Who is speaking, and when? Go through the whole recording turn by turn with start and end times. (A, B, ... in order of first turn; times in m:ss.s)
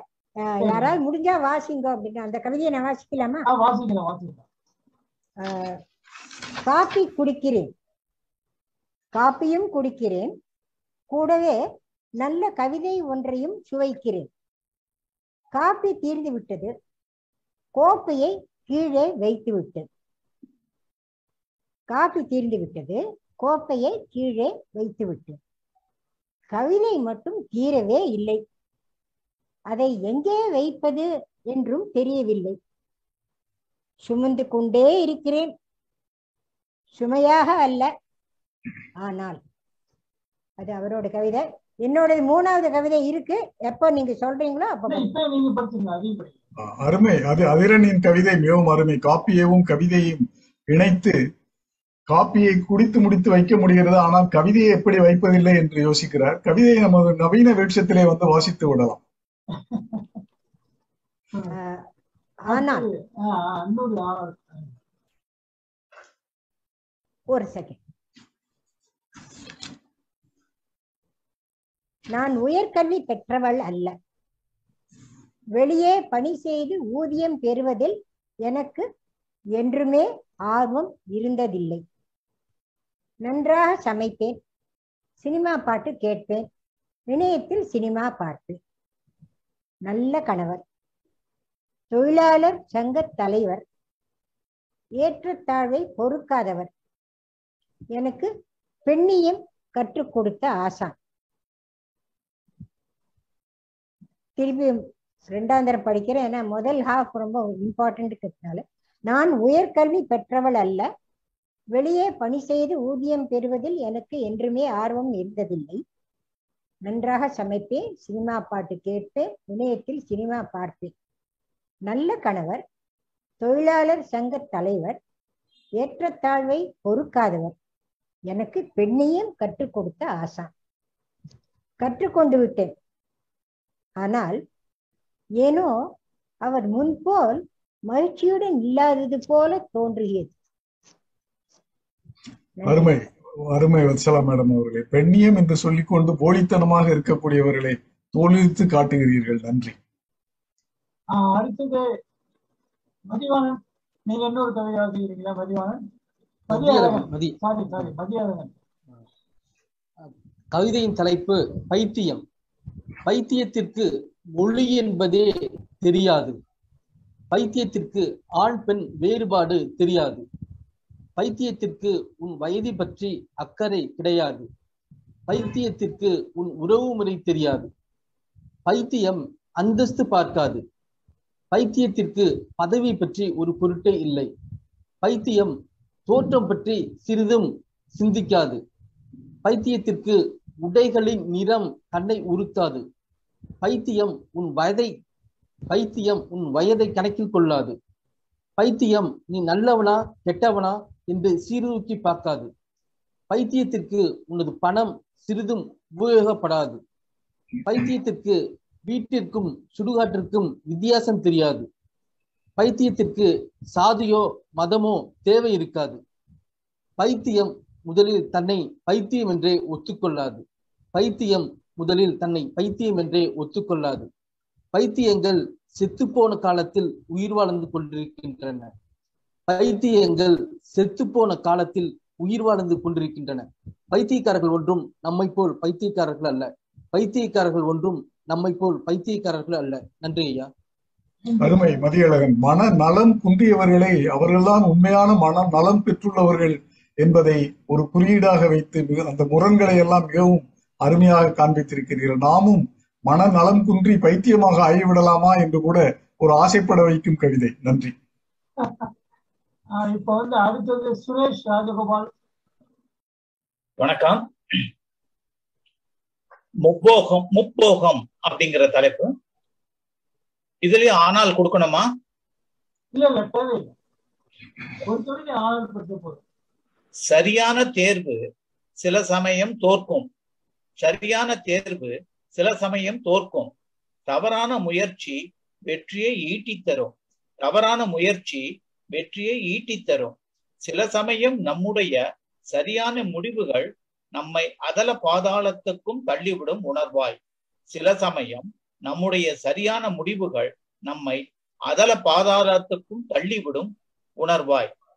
0:00.4-0:03.4 A
0:00.6-0:01.0 B
0:03.5-0:04.4 B
0:05.4-0:05.8 A
0:06.6-0:07.7 A
0:09.1-0:10.3 A
0:11.1-0:11.6 A
0:12.2-0:14.3 A
0:15.5-0:16.7 A
0:17.8-0:19.9 A
0:21.9-0:25.4 A
0:26.5-0:28.4 A
0:29.7-0:32.6 A
0:34.0-0:35.5 A
0:36.9-0:37.9 A
0:39.0-0:39.4 A
0:40.6-0:45.1 A
0:44.9-0:46.4 B
0:46.6-0:51.2 C
0:52.1-0:59.0 C
0:59.5-1:00.2 B
1:01.5-1:01.8 A
1:02.4-1:02.8 A
1:02.5-1:04.7 B
1:07.3-1:07.8 A
1:12.1-1:13.9 A
1:15.6-1:18.8 A
1:19.6-1:21.8 A
1:23.2-1:24.4 A
1:25.2-1:26.4 A
1:27.1-1:28.6 A
1:29.9-1:30.6 A
1:31.9-1:33.6 A
1:35.0-1:36.7 A
1:37.9-1:38.3 A
1:38.8-1:40.9 A
1:44.4-1:50.8 A
1:51.7-1:55.8 A
1:56.8-2:00.9 A
2:01.9-2:02.6 A
2:03.4-2:05.0 A
2:05.8-2:07.5 A
2:08.3-2:10.5 A
2:11.8-2:12.7 A
2:14.0-2:14.4 A
2:15.4-2:15.7 A
2:16.4-2:20.3 A
2:22.6-2:23.0 A
2:22.6-2:29.8 C
2:31.1-2:31.8 B
2:33.1-2:33.6 B
2:34.1-2:35.8 B
2:36.5-2:37.3 D
2:36.5-2:38.5 B
2:40.0-2:42.2 D
2:43.0-2:45.3 D
2:45.8-2:46.4 D
2:47.3-2:50.2 D
2:51.2-2:54.4 D
2:55.3-2:57.7 D
2:58.7-3:00.6 D
3:01.5-3:04.3 D
3:05.0-3:05.5 D
3:06.1-3:08.6 D
3:09.4-3:12.8 D
3:13.6-3:14.9 D
3:15.7-3:17.8 D
3:18.6-3:22.5 D
3:23.3-3:26.8 D
3:27.6-3:31.7 D
3:32.6-3:36.0 D
3:37.0-3:40.4 D
3:40.9-3:44.1 D
3:44.7-3:48.7 D
3:49.5-4:00.5 D
4:01.3-4:01.6 B
4:01.4-4:17.9 C
4:19.8-4:22.1 B
4:23.8-4:24.2 E
4:26.6-4:29.1 E
4:30.6-4:31.9 E
4:32.9-4:33.7 B
4:34.8-4:36.2 B
4:37.1-4:38.2 E
4:38.8-4:40.1 E
4:40.8-4:43.5 E
4:44.1-4:52.0 E
4:52.5-4:57.2 E
4:57.7-5:04.7 E